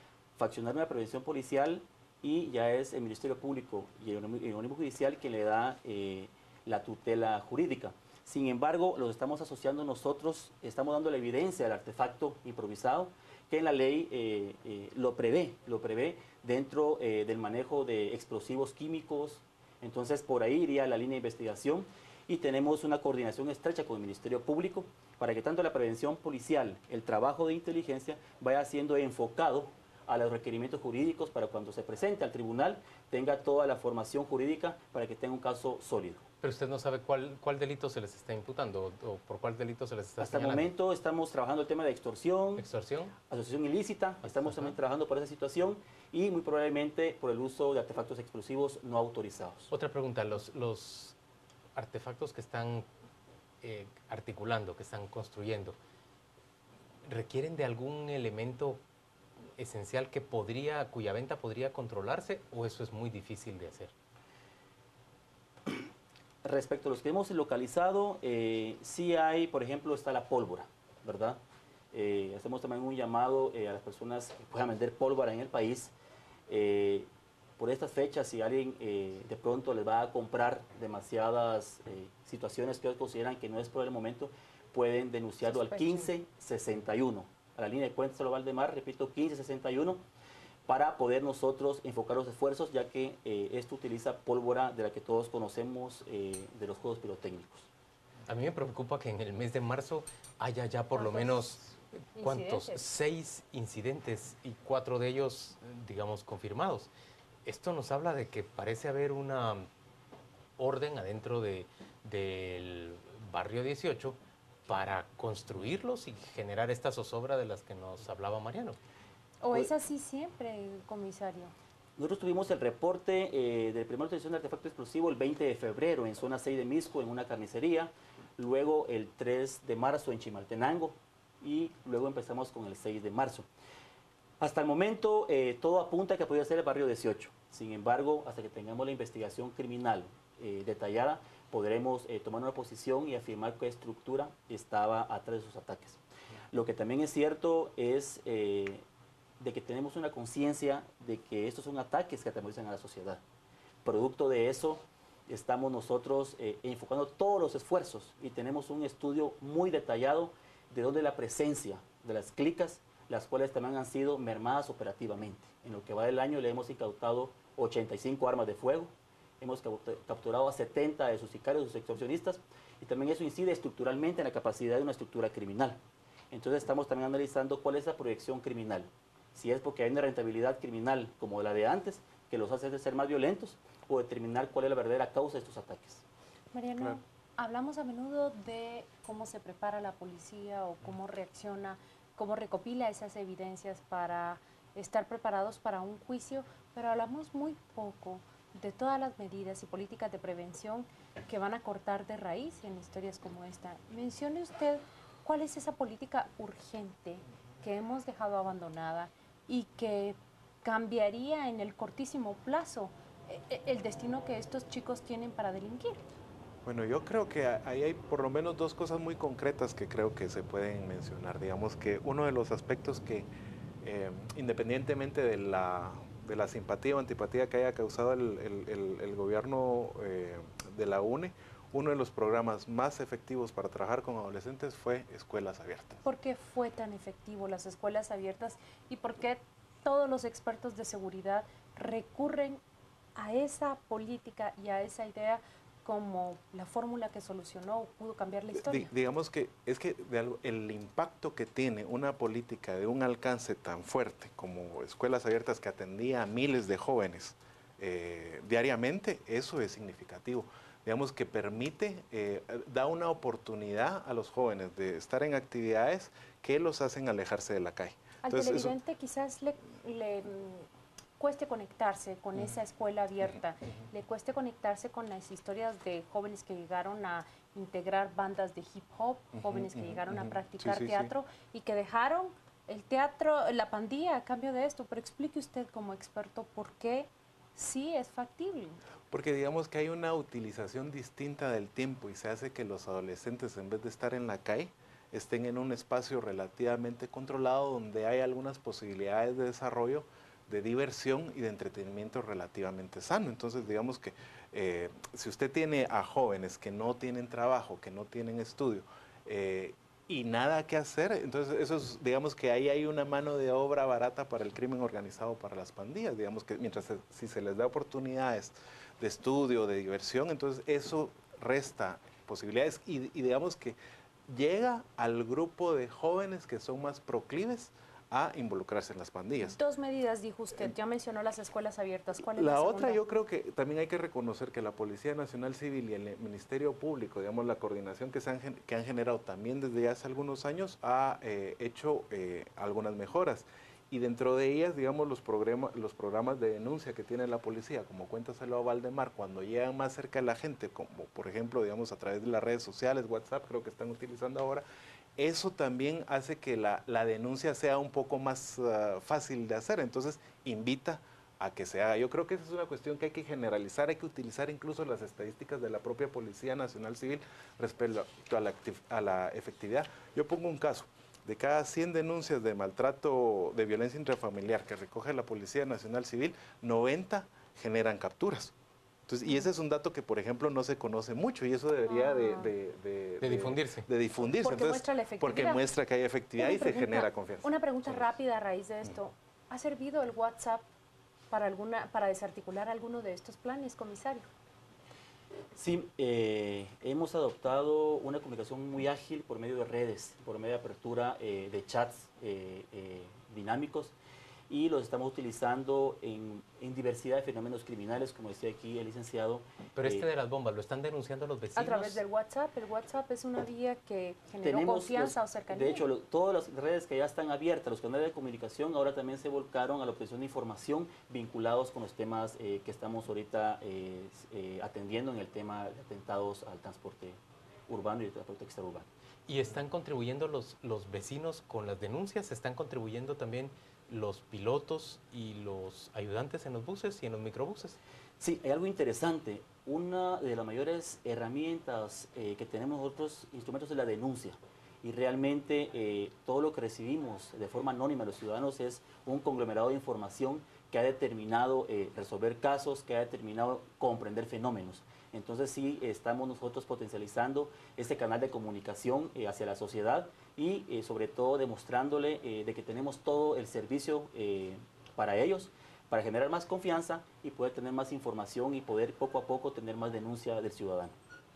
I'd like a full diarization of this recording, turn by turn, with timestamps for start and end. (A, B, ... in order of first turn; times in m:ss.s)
0:00.4-0:36.2 A
0:36.4-0:40.7 B
0:40.2-0:42.6 A
0:42.6-0:43.1 B
0:43.2-0:49.7 A
0:49.7-0:51.1 B
0:51.7-0:52.9 B
0:53.6-0:55.8 B
0:57.0-0:58.8 B
0:59.6-1:03.9 B
1:06.4-1:11.4 A
1:11.9-1:15.9 A
1:16.5-1:30.0 A
1:25.5-1:26.1 C
1:30.7-1:37.7 A
1:38.3-1:46.9 B
1:40.9-1:41.5 C
1:42.2-1:42.8 C
1:47.4-1:49.6 B
1:50.6-1:58.8 B
1:59.4-2:01.5 C
2:02.0-2:13.5 A
2:14.4-2:26.0 A
2:26.5-2:28.8 A
2:29.4-2:33.2 A
2:33.8-2:55.8 A
2:56.3-3:06.0 A
3:06.5-3:36.0 C
3:36.6-3:43.3 D
3:43.8-3:56.0 D
3:56.0-4:02.6 C
4:03.1-4:08.9 C
4:08.5-4:28.8 D
4:28.2-4:30.6 C
4:31.2-4:48.8 C
4:39.4-4:41.1 D
4:49.1-5:23.8 D
5:24.3-5:29.6 D
5:29.5-5:33.0 C
5:32.3-5:54.6 D
5:55.2-6:18.5 D
6:19.1-6:28.2 D
6:21.8-6:22.5 C
6:23.2-6:23.9 B
6:24.2-6:25.6 C
6:26.4-6:30.6 C
6:31.3-6:34.3 C
6:35.5-6:43.9 A
6:44.5-6:50.0 A
6:49.8-6:52.0 B
6:51.5-6:55.8 C
6:54.4-7:08.9 A
7:09.3-7:17.8 B
7:18.2-7:50.9 A